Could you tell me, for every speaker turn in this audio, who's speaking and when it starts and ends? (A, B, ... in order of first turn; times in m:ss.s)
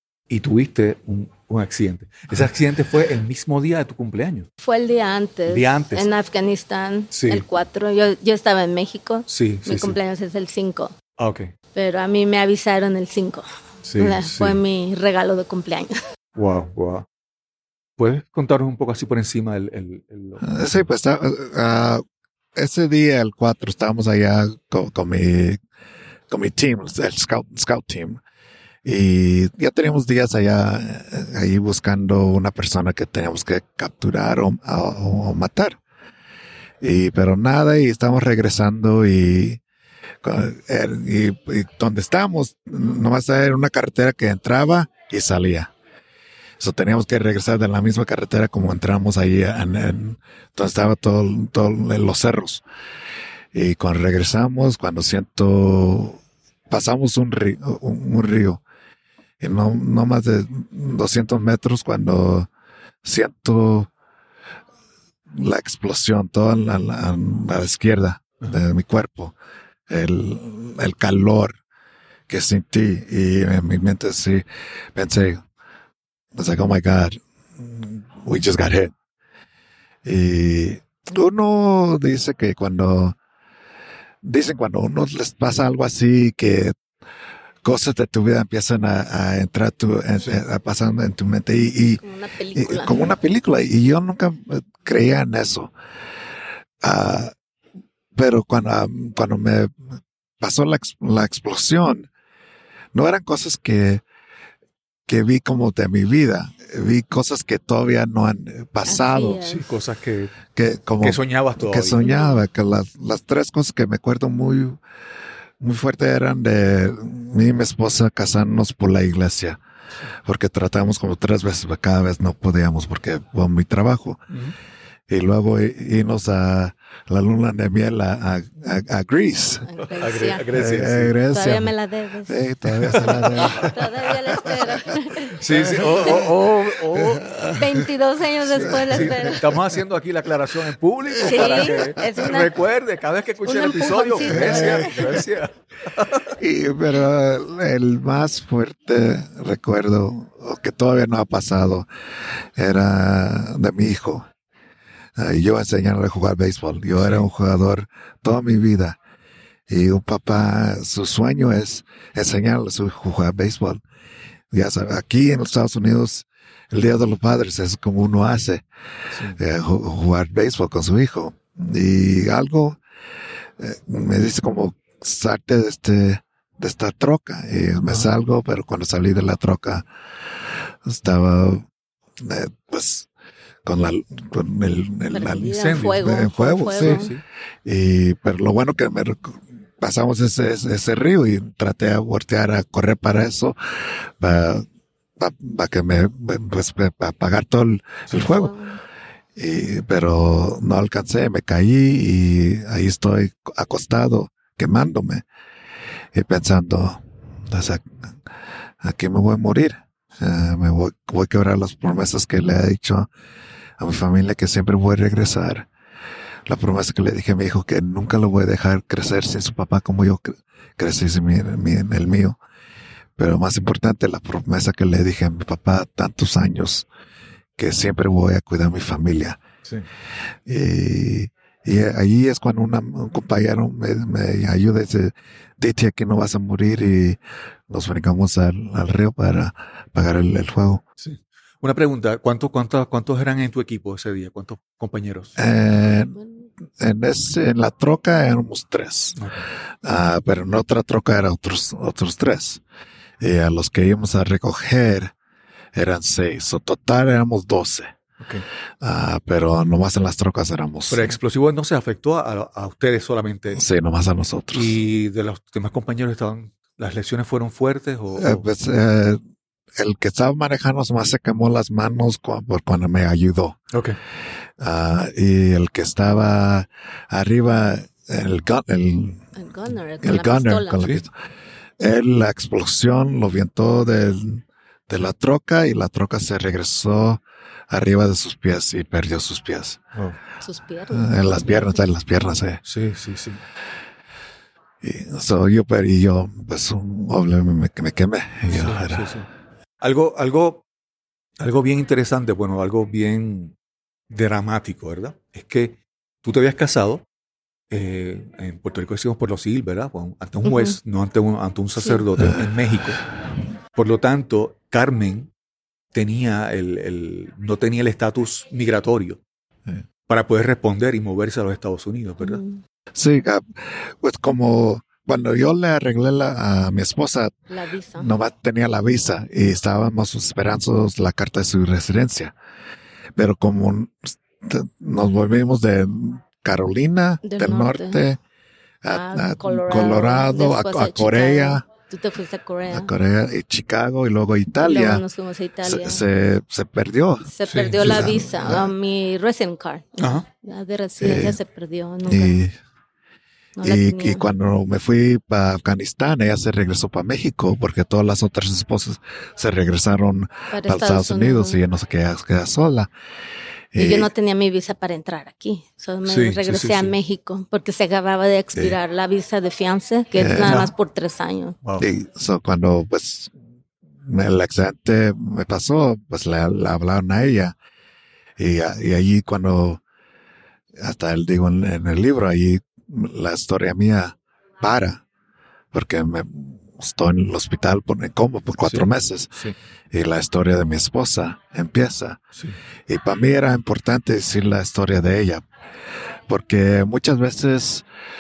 0:00.3-0:04.5 A
0:04.6-0:10.9 B
0:05.5-0:06.1 A
0:07.1-0:07.4 A
0:09.3-0:10.0 A
0:11.2-0:11.5 A
0:11.7-0:13.4 B
0:13.8-0:14.6 A
0:14.0-0:16.0 B
0:16.4-0:17.1 A
0:18.0-0:20.8 A
0:20.4-0:22.0 C
0:22.6-0:25.6 C
0:26.3-0:28.2 C
0:28.8-0:35.8 C
0:36.8-0:39.6 C
0:40.2-0:45.7 C
0:46.6-0:52.6 C
0:53.5-0:58.6 C
0:59.4-1:02.5 C
1:03.0-1:03.9 C
1:05.3-1:09.4 C
1:09.9-1:11.6 C
1:12.3-1:14.4 C
1:15.0-1:15.4 C
1:16.4-1:19.0 C
1:20.0-1:23.2 C
1:24.2-1:26.8 C
1:27.6-1:32.0 C
1:32.0-1:33.1 B
1:32.6-1:35.7 C
1:36.8-1:37.4 C
1:38.2-1:39.9 C
1:40.4-1:42.1 C
1:42.9-1:44.0 C
1:45.1-1:49.4 C
1:48.9-1:49.6 B
1:49.5-1:50.4 A
1:50.5-1:54.8 C
1:51.0-1:52.0 A
1:52.0-1:52.4 B
1:55.6-1:59.6 C
2:00.2-2:04.2 C
2:04.3-2:04.6 A
2:05.1-2:09.7 C
2:09.7-2:10.4 B
2:10.0-2:11.2 A
2:10.5-2:11.7 C
2:11.3-2:12.4 B
2:12.3-2:14.9 C
2:12.8-2:13.7 A
2:13.4-2:15.4 B
2:15.4-2:17.4 A
2:15.5-2:16.4 C
2:16.0-2:16.3 B
2:17.0-2:17.9 C
2:17.6-2:19.6 B
2:18.5-2:19.4 C
2:18.5-2:26.3 A
2:21.2-2:21.8 C
2:21.2-2:22.6 B
2:23.4-2:25.2 B
2:24.3-2:25.2 C
2:26.4-2:31.9 C
2:32.6-2:34.3 C
2:35.2-2:39.0 C
2:37.0-2:37.3 A
2:39.7-2:43.8 C
2:44.5-2:48.6 C
2:49.1-2:49.4 A
2:49.3-2:52.8 C
2:53.6-2:59.9 C
3:00.8-3:01.7 C
3:02.2-3:03.1 C
3:03.6-3:07.1 C
3:05.1-3:07.1 B
3:05.5-3:06.0 A
3:06.8-3:07.2 A
3:07.6-3:14.7 C
3:15.2-3:18.5 C
3:18.2-3:18.8 B
3:19.4-3:25.2 C
3:26.1-3:27.9 C
3:28.8-3:33.1 C
3:33.8-3:35.7 C
3:36.5-3:42.4 C
3:43.2-3:46.9 C
3:47.6-3:49.4 C
3:50.5-4:00.8 C
4:01.0-4:05.4 A
4:05.4-4:06.2 C
4:06.1-4:06.4 B
4:06.8-4:09.2 C
4:09.2-4:09.5 A
4:09.8-4:12.6 C
4:13.2-4:15.1 C
4:15.7-4:18.0 C
4:18.8-4:21.2 C
4:20.9-4:23.6 A
4:23.5-4:24.8 C
4:24.5-4:28.4 A
4:28.2-4:29.2 C
4:29.8-4:33.6 C
4:34.6-4:39.3 C
4:39.4-4:40.9 B
4:40.0-4:41.1 C
4:41.8-4:49.8 C
4:50.4-4:51.9 B
4:50.9-4:52.6 C
4:52.6-4:53.4 A
4:54.8-4:59.1 C
4:58.5-4:59.3 A
4:59.8-5:00.6 A
5:01.4-5:03.5 A
5:04.1-5:07.0 A
5:07.7-5:13.0 A
5:10.4-5:10.8 B
5:11.8-5:12.0 B
5:13.8-5:15.3 A
5:15.9-5:19.2 A
5:20.1-5:22.4 A
5:22.2-5:22.6 B
5:23.0-5:27.3 C
5:27.5-5:28.1 B
5:28.0-5:32.3 C
5:33.2-5:38.2 C
5:37.2-5:38.0 B
5:38.8-5:41.6 C
5:38.9-5:42.9 B
5:42.7-5:45.0 C
5:44.6-5:46.0 B
5:45.6-5:47.3 C
5:47.3-5:52.3 B
5:47.4-5:48.0 A
5:47.8-5:48.7 C
5:50.0-5:50.2 A
5:51.0-5:51.4 C
5:52.0-5:52.5 C
5:53.6-5:54.2 B
5:53.6-6:02.9 C
6:00.5-6:01.6 B
6:03.7-6:04.1 C
6:03.8-6:11.6 B
6:06.0-6:07.0 A
6:10.2-6:10.7 C
6:10.3-6:10.7 A
6:11.8-6:13.3 C
6:14.0-6:17.5 C
6:18.4-6:19.8 C
6:20.8-6:25.0 C
6:25.7-6:29.3 C
6:28.6-6:29.6 A
6:29.9-6:32.2 C
6:32.9-6:35.4 C
6:36.3-6:37.9 C